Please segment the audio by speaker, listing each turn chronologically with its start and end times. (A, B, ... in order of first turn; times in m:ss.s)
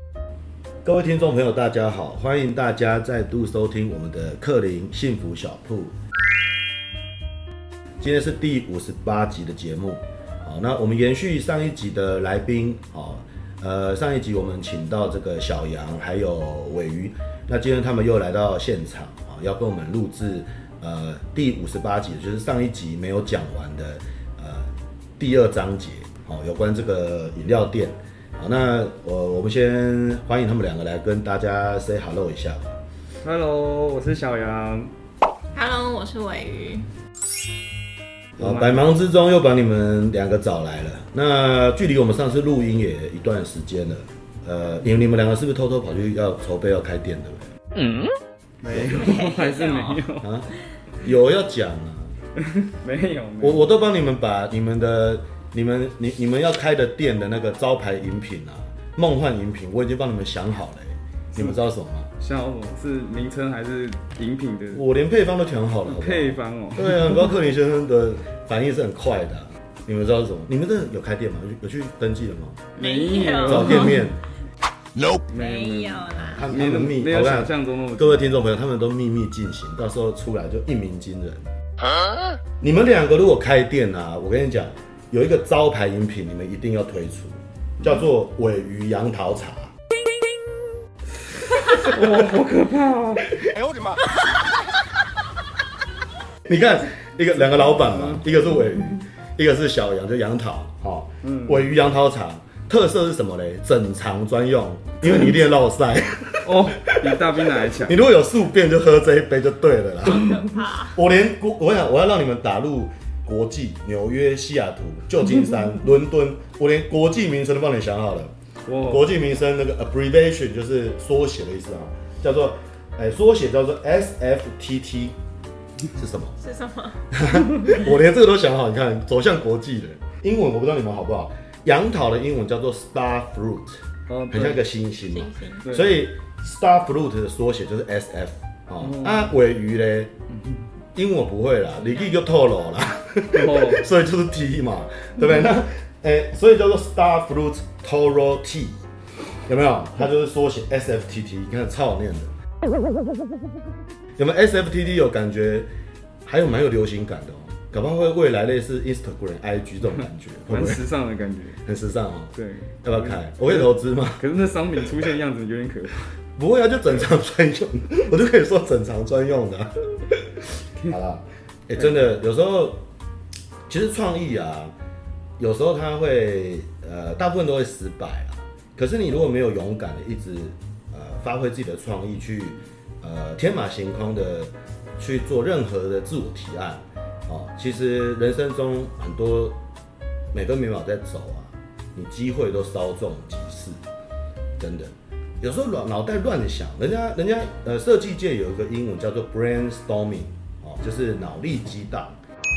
0:00.8-0:05.9 A
0:08.0-0:32.8 A
0:33.2-0:34.9 B
0:35.5-0:36.8 C
0:38.4-0:38.9 B
0:38.4-0:47.5 A
0:47.7-0:50.3 B
0:48.7-0:49.1 A
0:48.8-0:50.0 C
0:50.2-0:50.5 A
0:51.0-0:52.1 A
0:52.4-0:53.8 B
0:53.4-1:02.1 A
1:02.2-1:04.8 B
1:04.7-1:12.7 A
1:05.9-1:07.3 B
1:12.8-1:14.1 B
1:12.8-1:14.0 C
1:13.4-1:14.2 A
1:15.3-1:18.4 B
1:15.3-1:16.5 C
1:16.2-1:21.5 A
1:22.6-1:29.7 A
1:31.5-1:33.5 B
1:36.5-1:50.3 A
1:37.8-1:38.2 B
1:41.2-1:41.6 B
1:46.4-1:48.0 B
1:50.0-1:51.0 C
1:50.9-1:58.3 A
1:58.6-1:59.0 B
1:58.8-2:05.2 A
2:05.9-2:06.4 A
2:06.4-2:07.0 C
2:07.1-2:20.1 A
2:14.1-2:14.6 B
2:15.1-2:15.6 C
2:15.6-2:15.9 B
2:18.8-2:19.3 B
2:20.9-2:28.8 A
2:23.3-2:23.8 B
2:29.4-2:32.3 A
2:34.2-2:35.7 A
2:36.2-2:40.8 A
2:40.5-2:41.6 B
2:41.6-2:44.2 A
2:42.4-2:46.1 B
2:46.4-2:52.8 A
2:53.7-2:54.7 A
2:55.4-3:09.6 A
3:10.3-3:13.8 A
3:14.6-3:22.2 A